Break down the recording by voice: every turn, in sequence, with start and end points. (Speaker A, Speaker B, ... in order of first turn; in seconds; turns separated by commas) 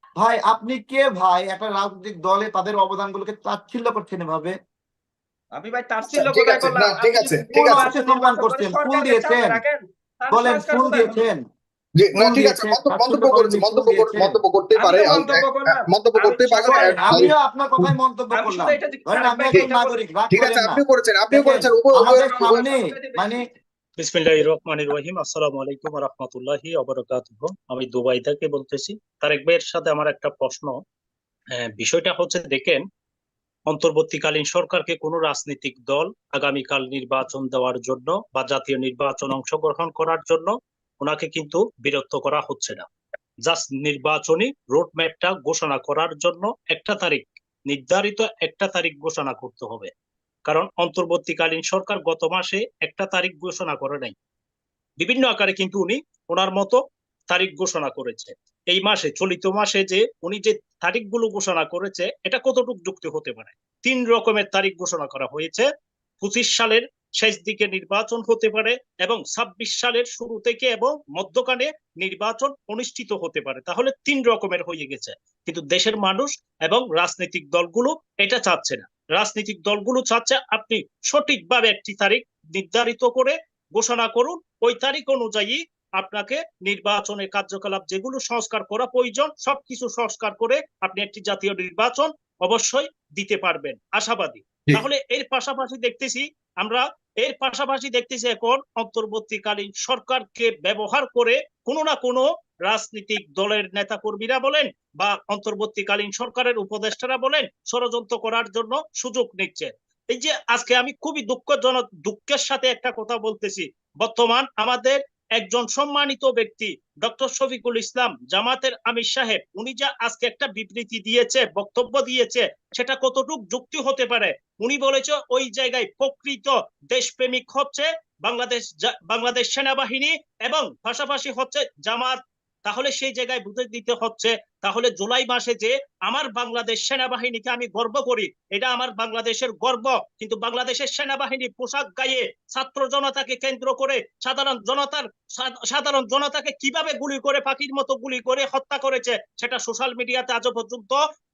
Speaker A: 0.2-4.5, Speaker B: 5.6-11.2, Speaker C: 6.1-7.9, Speaker A: 7.5-9.6, Speaker A: 10.3-11.4, Speaker C: 12.0-17.9, Speaker A: 12.2-14.4, Speaker B: 14.8-17.2, Speaker A: 16.6-23.4, Speaker B: 18.4-20.0, Speaker C: 20.3-22.7, Speaker B: 22.0-23.4, Speaker D: 24.0-30.8, Speaker D: 31.5-32.8, Speaker D: 33.7-42.9, Speaker D: 43.5-49.9, Speaker D: 50.5-54.1, Speaker D: 55.0-56.8, Speaker D: 57.3-65.7, Speaker D: 66.2-151.0